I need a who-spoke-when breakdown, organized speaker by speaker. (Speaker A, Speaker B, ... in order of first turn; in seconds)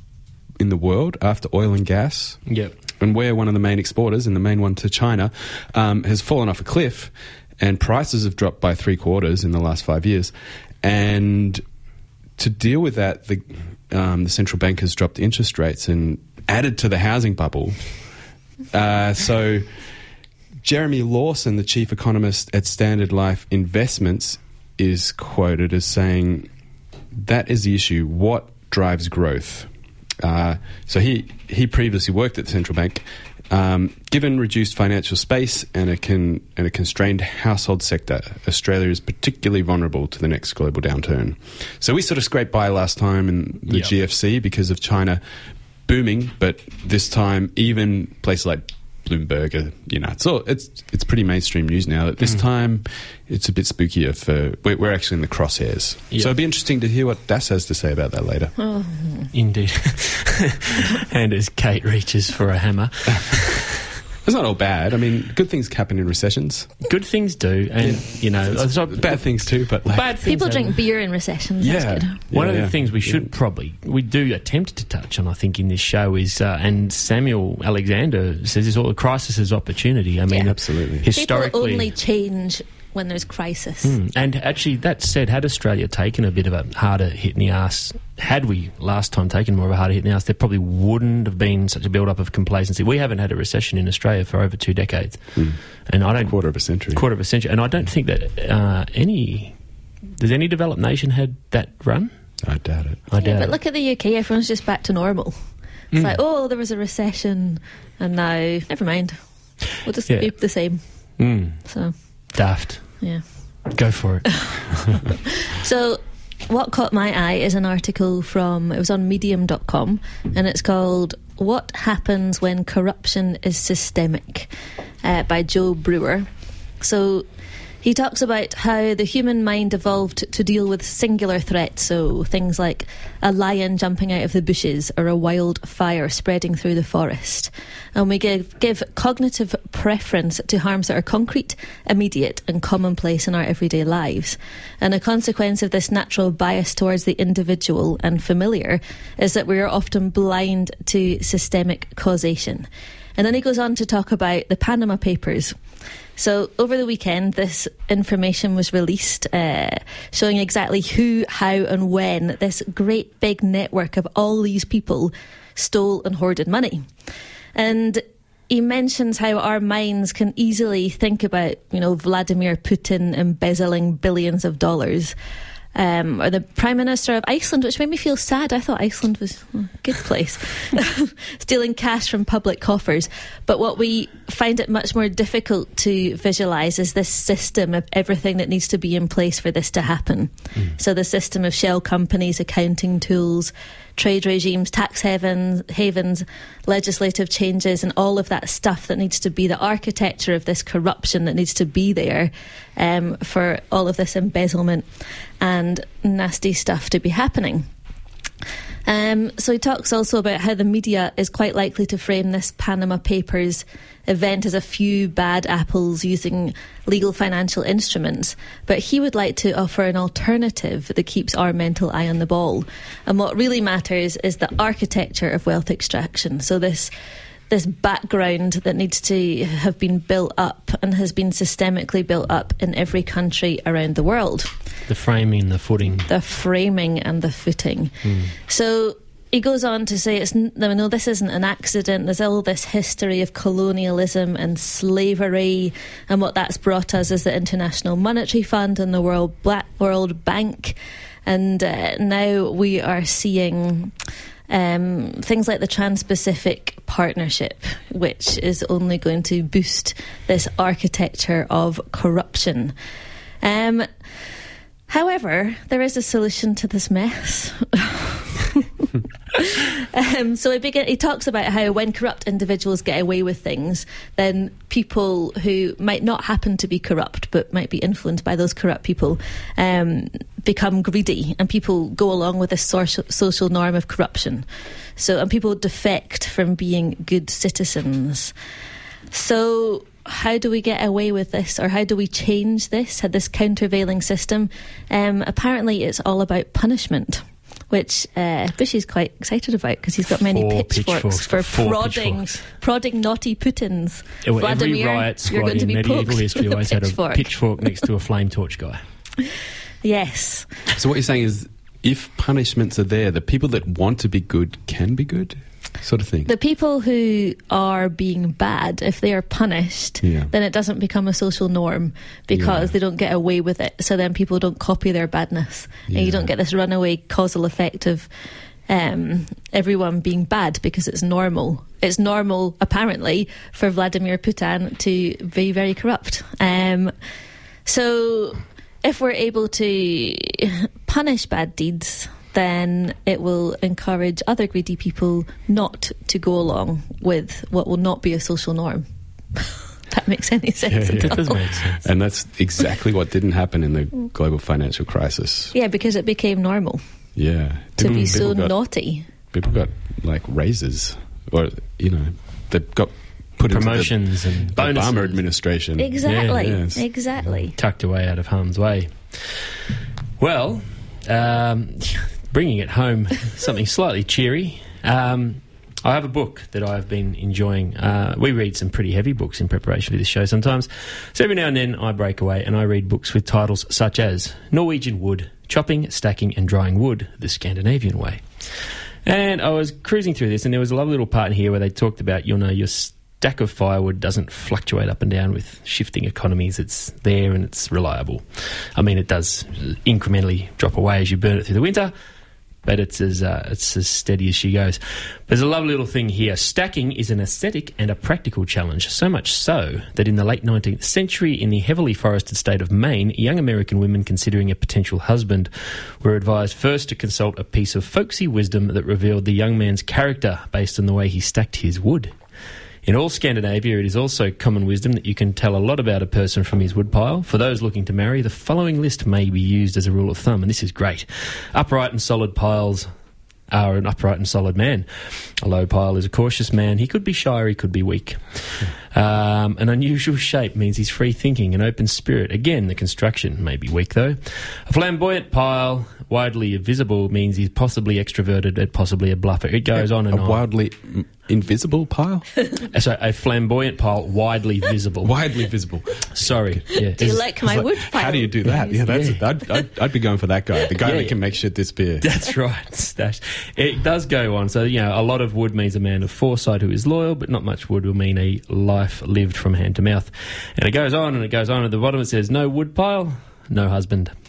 Speaker A: 0.6-2.4, 3.0-11.6, 12.4-18.1, 18.7-19.7, 20.6-26.5, 27.1-29.7, 30.2-45.2, 45.9-58.5, 64.2-66.7, 67.8-70.2, 71.6-73.3, 80.5-81.0, 95.3-97.0, 102.4-103.0, 310.8-316.3, 320.0-320.3, 322.3-322.7, 325.9-326.3, 350.6-355.5, 357.1-358.6, 359.3-367.4, 449.7-452.2, 455.0-456.6, 457.4-462.1
Speaker B: 2.5-2.7, 43.7-43.9, 59.3-63.7, 66.9-70.8, 72.3-81.9, 83.8-99.6, 100.2-102.3, 103.1-103.5, 105.9-106.2, 110.1-110.3, 111.2-111.7, 112.3-114.5, 234.9-236.1, 238.0-238.3, 300.3-302.4, 304.2-308.8, 350.9-351.8, 357.8-358.2, 363.5-365.2, 366.0-366.5, 367.6-369.5, 370.2-388.4, 389.0-398.2, 398.8-401.9, 402.6-422.1, 422.8-432.9, 433.5-450.4, 452.7-455.1, 456.1-457.2, 458.9-459.2, 460.8-461.2, 462.0-474.1
Speaker C: 58.6-59.3, 70.2-72.1, 80.3-80.5, 81.1-84.0, 103.2-111.9, 113.0-113.7, 115.0-124.5, 125.0-126.3, 126.8-127.2, 127.8-155.5, 156.2-166.9, 167.5-175.1, 175.7-204.9, 205.4-207.7, 208.8-226.9, 227.5-234.5, 236.1-253.9, 254.5-262.7, 263.4-263.9, 264.9-284.4, 285.0-288.3, 289.1-307.3, 309.8-310.5, 316.2-328.1, 328.7-336.9, 337.6-351.6, 355.5-356.8, 357.8-359.1, 365.8-367.5, 456.9-458.9